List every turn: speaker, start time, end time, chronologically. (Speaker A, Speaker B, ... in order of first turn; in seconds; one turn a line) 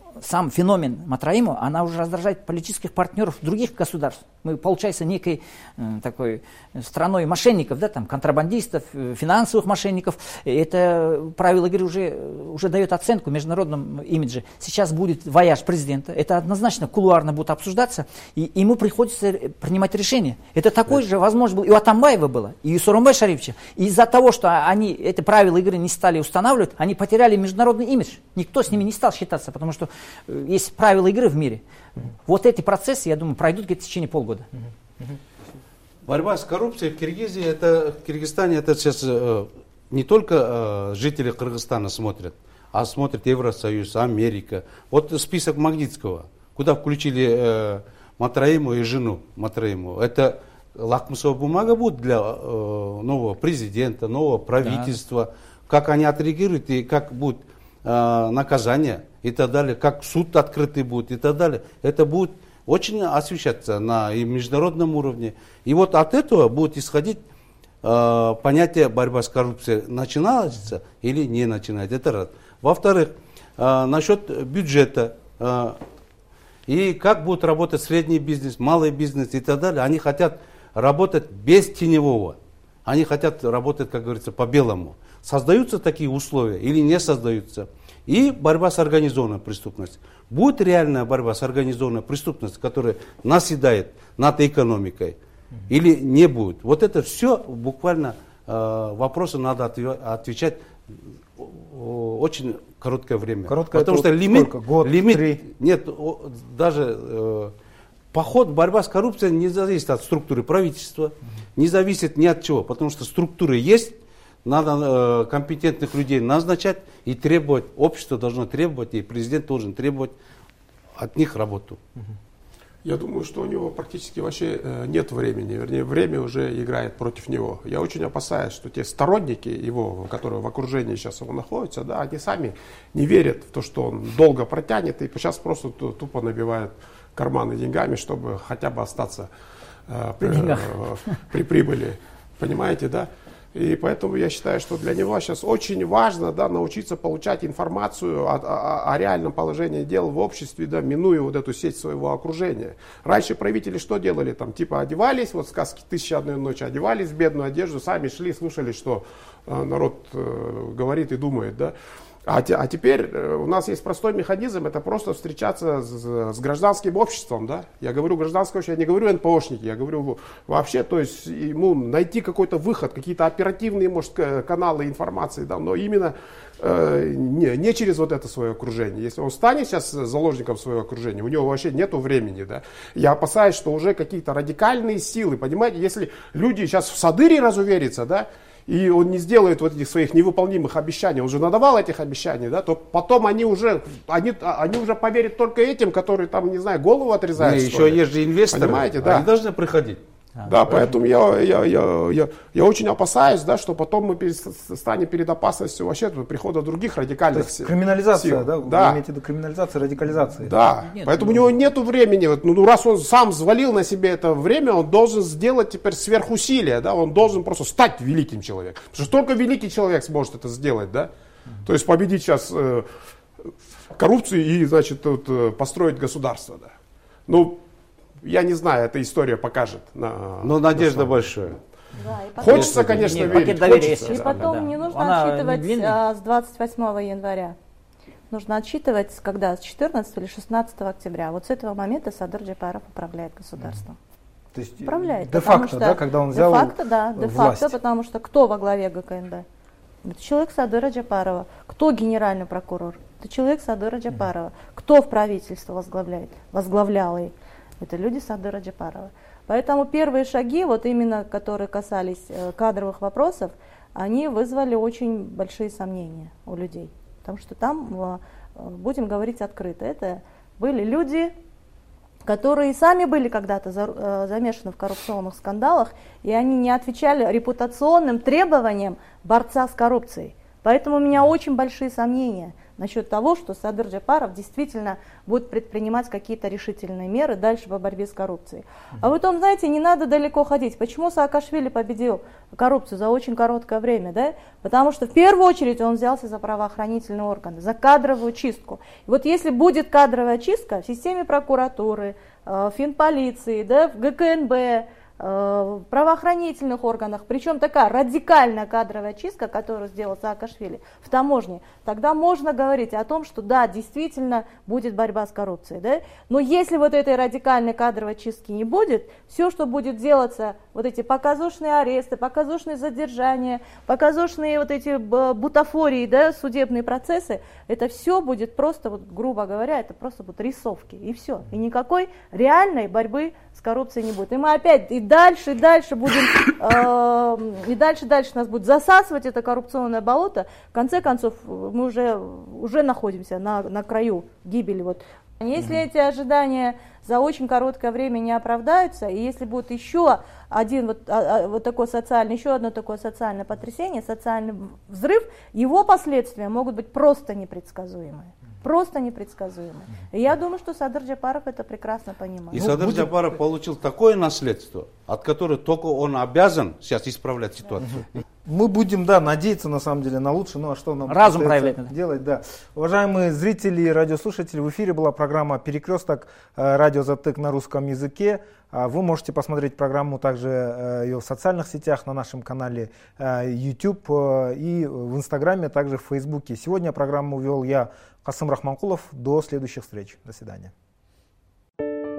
Speaker A: 0.2-34.5
Speaker B: 36.1-67.2
Speaker A: 54.6-55.0
Speaker B: 67.8-75.8
Speaker B: 76.7-95.2
Speaker B: 95.7-107.5
Speaker C: 103.5-105.4
Speaker B: 108.1-120.1
Speaker B: 121.0-121.8
Speaker D: 122.8-139.3
Speaker D: 139.9-161.7
Speaker A: 140.2-140.7
Speaker D: 162.3-199.3
Speaker B: 197.4-200.0
Speaker D: 200.4-209.0
Speaker C: 207.3-210.5
Speaker D: 210.4-221.1
Speaker A: 210.7-211.5
Speaker D: 221.6-222.9
Speaker D: 223.5-226.7
Speaker D: 227.3-227.6
Speaker D: 228.2-231.3
Speaker B: 230.4-231.6
Speaker E: 232.0-237.6
Speaker D: 232.4-234.5
Speaker B: 232.4-233.4
Speaker A: 232.7-236.0
Speaker E: 238.3-244.0
Speaker C: 244.5-247.8
Speaker E: 244.8-249.5
Speaker E: 250.0-271.3
Speaker E: 272.2-362.7
Speaker B: 362.5-368.2
Speaker C: 368.4-390.7
Speaker A: 371.1-371.9